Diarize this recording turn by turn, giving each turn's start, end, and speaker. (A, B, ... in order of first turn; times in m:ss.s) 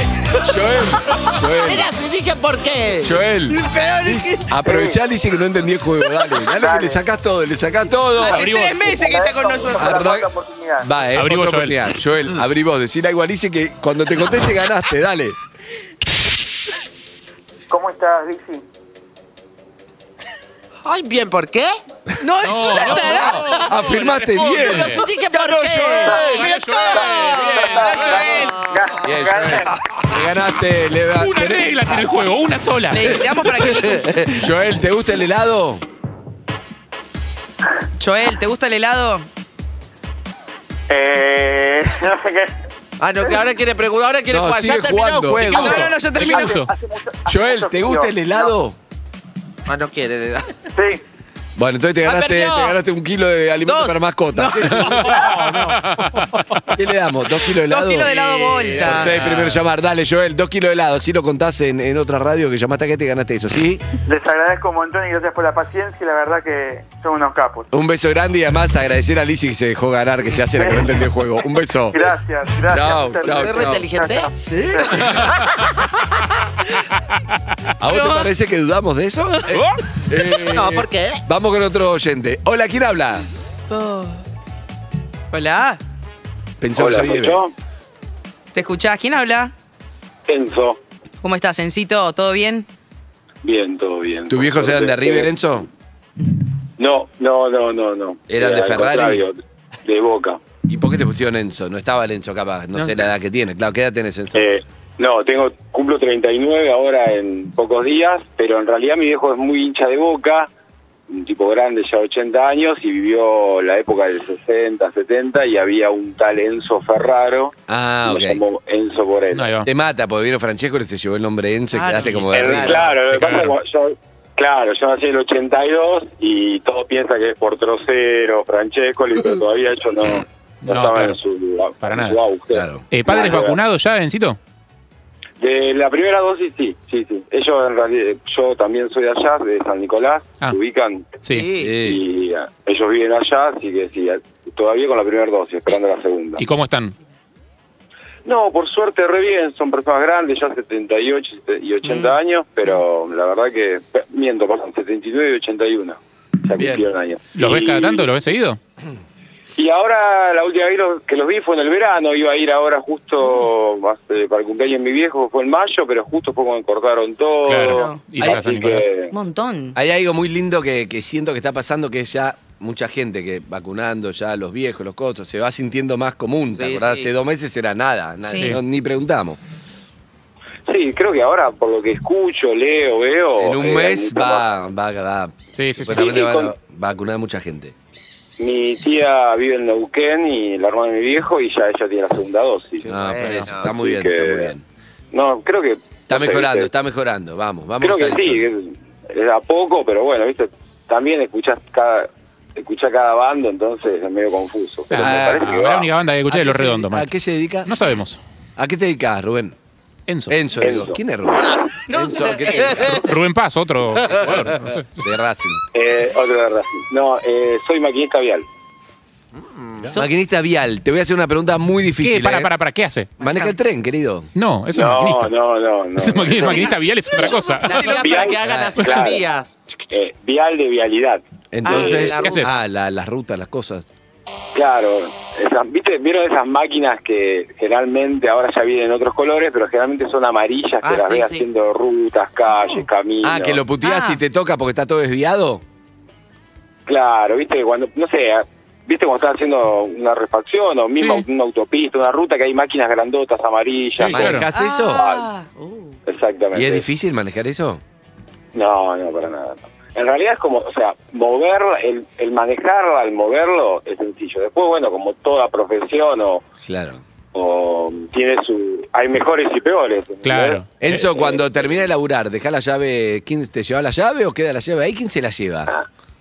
0:00.4-0:01.9 A
0:01.0-0:01.4 B
0:01.6-0:03.2 C
0:03.0-0:08.5 A
0:03.5-0:04.6 B
0:04.6-0:05.0 D
0:06.5-0:07.0 D
0:08.2-0:10.0 B
0:08.3-0:08.9 E
0:08.8-0:11.0 D
0:09.8-0:10.3 A
0:10.8-0:15.4 A
0:11.2-0:11.8 E
0:17.7-0:18.6 D
0:20.8-0:21.8 C
0:22.2-0:23.7 B
0:22.4-0:25.0 E
0:23.1-0:26.1 A
0:24.5-0:26.2 C
0:26.0-0:29.7 D
0:26.1-0:28.4 E
0:26.2-0:28.6 B
0:28.0-0:29.0 C
0:29.0-0:31.7 A
0:31.2-0:33.1 E
0:32.9-0:34.3 B
0:33.4-0:34.4 C
0:34.3-0:35.8 A
0:38.0-0:39.3 B
0:40.9-0:42.6 D
0:43.0-0:45.8 C
0:44.3-0:45.8 A
0:45.5-0:46.7 E
0:45.5-0:46.6 B
0:45.8-0:48.5 D
0:47.3-0:48.8 A
0:49.7-0:50.6 C
0:50.7-0:51.0 D
0:51.6-0:55.1 A
0:52.0-0:52.8 C
0:53.6-0:55.4 B
0:54.8-0:56.6 E
0:56.7-0:58.2 A
0:57.7-0:59.1 B
0:58.1-0:59.6 E
0:58.8-1:03.8 A
1:04.1-1:07.7 D
1:07.7-1:13.9 A
1:10.5-1:11.0 D
1:11.9-1:15.1 D
1:13.2-1:14.3 C
1:14.4-1:15.4 A
1:17.8-1:23.3 A
1:17.9-1:18.3 B
1:19.5-1:19.8 E
1:20.5-1:21.2 C
1:23.7-1:24.2 B
1:25.3-1:25.8 B
1:26.6-1:27.4 A
1:26.8-1:27.5 F
1:28.5-1:29.5 B
1:30.3-1:30.8 F
1:31.2-1:32.7 B
1:33.4-1:35.3 F
1:34.3-1:35.7 A
1:36.8-1:40.4 F
1:38.3-1:39.3 A
1:40.7-1:44.5 A
1:44.4-1:50.5 F
1:51.1-1:59.5 F
1:57.7-1:58.4 A
1:59.3-1:59.7 E
1:59.6-2:03.0 A
2:01.7-2:02.2 B
2:02.1-2:03.6 E
2:02.3-2:13.6 F
2:10.7-2:11.2 E
2:11.8-2:12.2 E
2:12.5-2:12.8 A
2:12.9-2:14.4 E
2:15.4-2:21.2 F
2:21.2-2:21.5 E
2:21.3-2:21.7 C
2:21.6-2:22.0 A
2:21.8-2:26.4 F
2:26.4-2:26.9 E
2:28.3-2:38.1 F
2:31.8-2:32.2 B
2:36.6-2:36.9 A
2:37.4-2:38.6 E
2:39.6-2:49.1 F
2:47.4-2:48.9 E
2:47.6-2:48.0 B
2:49.1-2:49.8 B
2:49.8-2:59.4 A
2:56.6-2:57.1 C
2:58.2-2:58.6 B
3:00.7-3:04.4 F
3:03.4-3:07.7 A
3:05.6-3:06.1 E
3:05.9-3:06.5 F
3:08.4-3:13.0 F
3:12.8-3:14.6 A
3:12.9-3:13.7 C
3:13.3-3:13.6 E
3:13.6-3:14.5 F
3:15.1-3:16.7 F
3:16.1-3:18.5 A
3:17.8-3:25.9 F
3:24.9-3:27.1 E
3:25.0-3:25.6 A
3:26.3-3:27.7 A
3:27.7-3:28.2 E
3:28.6-3:29.6 A
3:30.1-3:30.4 E
3:30.3-3:33.1 A
3:30.6-3:31.0 F
3:31.9-3:32.8 B
3:32.4-3:33.0 C
3:32.8-3:34.9 E
3:34.1-3:34.5 C
3:35.0-3:35.6 A
3:35.7-3:38.5 F
3:39.4-3:40.0 C
3:39.9-3:42.5 A
3:42.0-3:43.1 E
3:43.2-3:44.3 A
3:44.4-3:45.3 E
3:44.7-3:46.8 F
3:46.0-3:48.2 E
3:46.4-3:49.9 C
3:47.7-3:49.2 F
3:48.4-3:48.8 A
3:49.9-3:52.2 F
3:51.5-3:53.9 A
3:51.6-3:52.5 C
3:52.2-3:52.5 E
3:54.5-4:03.6 F
4:00.8-4:01.5 C
4:03.2-4:05.6 A
4:03.8-4:04.2 B
4:06.9-4:15.3 F
4:11.0-4:11.3 E
4:13.9-4:14.5 E
4:14.0-4:15.1 A
4:14.5-4:16.0 B
4:16.1-4:16.9 F
4:16.5-4:17.8 A
4:18.5-4:26.4 F
4:26.6-4:27.0 A
4:27.3-4:31.8 F
4:30.2-4:31.0 E
4:30.8-4:35.7 A